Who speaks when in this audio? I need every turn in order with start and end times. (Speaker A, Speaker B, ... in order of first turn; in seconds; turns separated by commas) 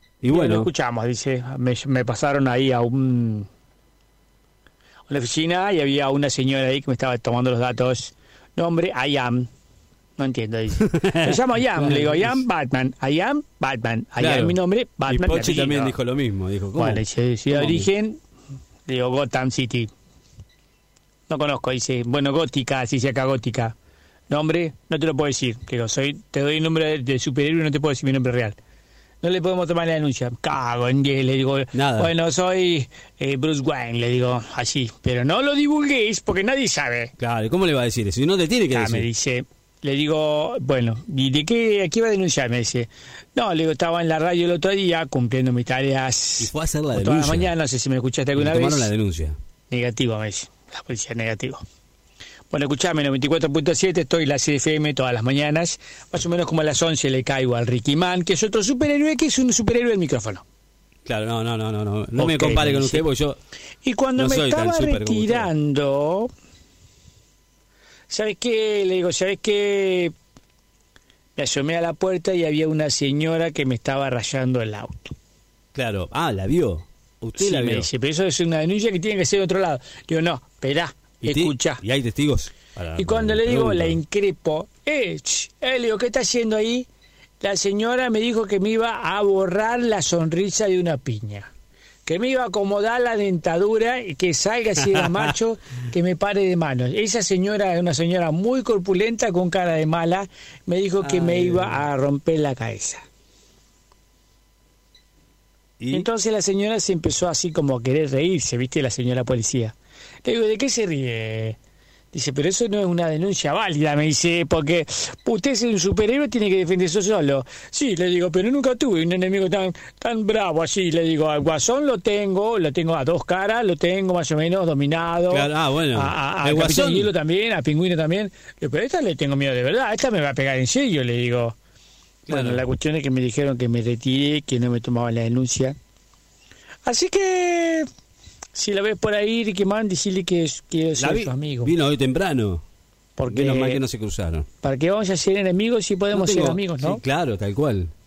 Speaker A: 0.2-0.7, Speaker B: 0.3-3.5, Speaker B: 5.1-9.5, Speaker B: 10.2-16.0, Speaker A: 10.9-12.4, Speaker A: 14.2-14.6, Speaker A: 15.1-17.9, Speaker B: 16.8-18.2, Speaker B: 18.9-19.9, Speaker B: 21.3-23.8, Speaker B: 24.3-28.6, Speaker B: 29.2-37.1, Speaker A: 31.7-32.1, Speaker A: 37.2-39.1, Speaker B: 38.7-48.9, Speaker A: 46.4-47.5, Speaker A: 48.4-49.4, Speaker B: 49.7-51.6, Speaker B: 52.5-60.4, Speaker A: 61.1-63.4, Speaker B: 62.2-63.0, Speaker B: 63.8-66.3, Speaker A: 64.2-65.5, Speaker B: 68.1-70.1, Speaker B: 71.4-75.2, Speaker A: 75.8-77.9, Speaker B: 77.4-81.8, Speaker A: 81.2-84.0, Speaker B: 83.0-86.9, Speaker B: 87.4-91.5, Speaker B: 92.1-103.0, Speaker A: 94.8-95.3, Speaker A: 101.0-101.8, Speaker A: 105.8-106.1, Speaker B: 105.9-111.6, Speaker B: 112.1-131.6, Speaker A: 125.3-127.1, Speaker A: 132.3-132.6, Speaker B: 132.3-135.8, Speaker B: 136.8-137.9, Speaker B: 138.6-141.7, Speaker A: 141.0-142.6, Speaker B: 143.2-143.8, Speaker A: 143.3-144.5, Speaker B: 144.6-147.0, Speaker A: 146.1-147.9